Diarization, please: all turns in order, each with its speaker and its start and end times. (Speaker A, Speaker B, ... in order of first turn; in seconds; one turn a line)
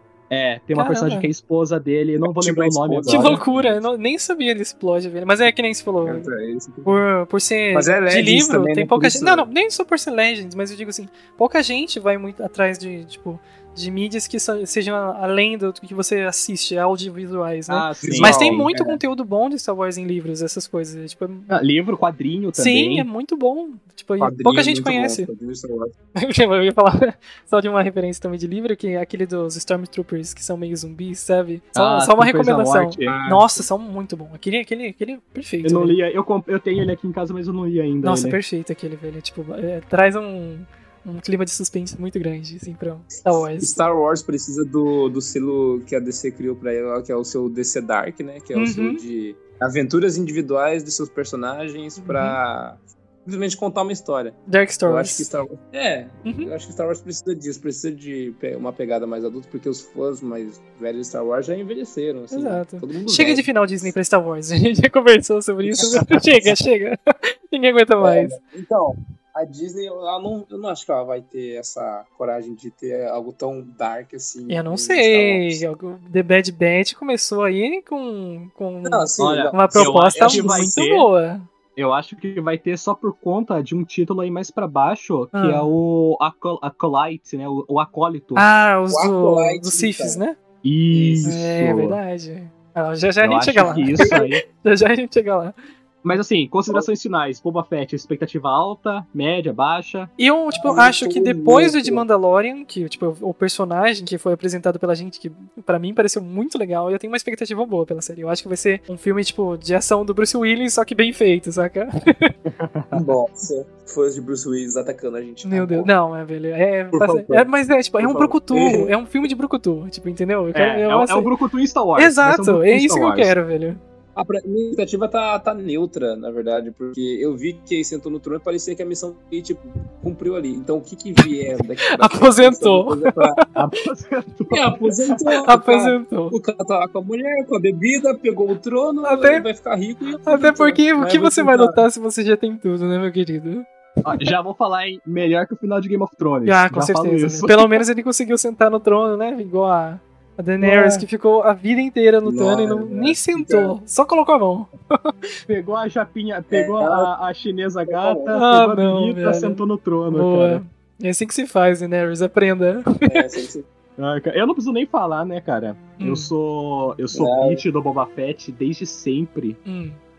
Speaker A: 0.3-3.4
Speaker B: 0.8-1.3
Speaker C: 2.2-3.8
Speaker B: 3.1-6.3
Speaker C: 6.0-7.0
Speaker B: 6.8-21.5
Speaker C: 7.7-9.5
Speaker A: 17.7-18.7
Speaker C: 18.0-19.0
Speaker A: 21.5-23.1
Speaker B: 22.6-25.3
Speaker C: 24.2-25.9
Speaker B: 26.2-36.0
Speaker A: 31.7-33.2
Speaker C: 33.0-33.7
Speaker A: 35.6-38.4
Speaker B: 38.0-43.8
Speaker C: 43.3-63.5
Speaker B: 48.5-49.0
Speaker B: 52.0-52.4
Speaker B: 54.5-55.3
Speaker B: 56.2-56.5
Speaker B: 62.3-67.0
Speaker C: 65.7-66.5
Speaker A: 65.8-66.1
Speaker B: 67.5-68.3
Speaker C: 68.0-75.6
Speaker B: 74.5-81.5
Speaker C: 78.8-80.8
Speaker A: 79.2-81.1
Speaker A: 81.8-88.5
Speaker B: 85.3-85.7
Speaker B: 88.4-90.4
Speaker C: 88.9-90.2
Speaker A: 90.6-92.0
Speaker C: 90.9-91.3
Speaker B: 91.2-95.6
Speaker A: 93.2-94.4
Speaker C: 93.7-94.2
Speaker A: 96.0-100.1
Speaker B: 100.2-112.3
Speaker C: 100.5-102.0
Speaker A: 112.5-113.0
Speaker C: 112.9-115.9
Speaker B: 115.5-121.3
Speaker C: 116.9-118.9
Speaker A: 120.5-123.3
Speaker B: 122.0-123.8
Speaker C: 124.2-133.4
Speaker B: 132.0-133.3
Speaker A: 133.6-134.8
Speaker C: 134.5-141.8
Speaker B: 135.4-136.3
Speaker B: 139.0-139.4
Speaker B: 140.3-143.7
Speaker A: 144.0-147.8
Speaker B: 146.4-155.1
Speaker A: 150.6-151.1
Speaker A: 152.3-153.1
Speaker C: 152.6-153.8
Speaker A: 155.5-160.6
Speaker C: 156.5-157.1
Speaker C: 157.9-158.4
Speaker B: 158.3-163.2
Speaker C: 163.1-163.7
Speaker A: 164.0-169.6
Speaker B: 166.0-166.3
Speaker C: 167.1-167.6
Speaker B: 169.7-170.0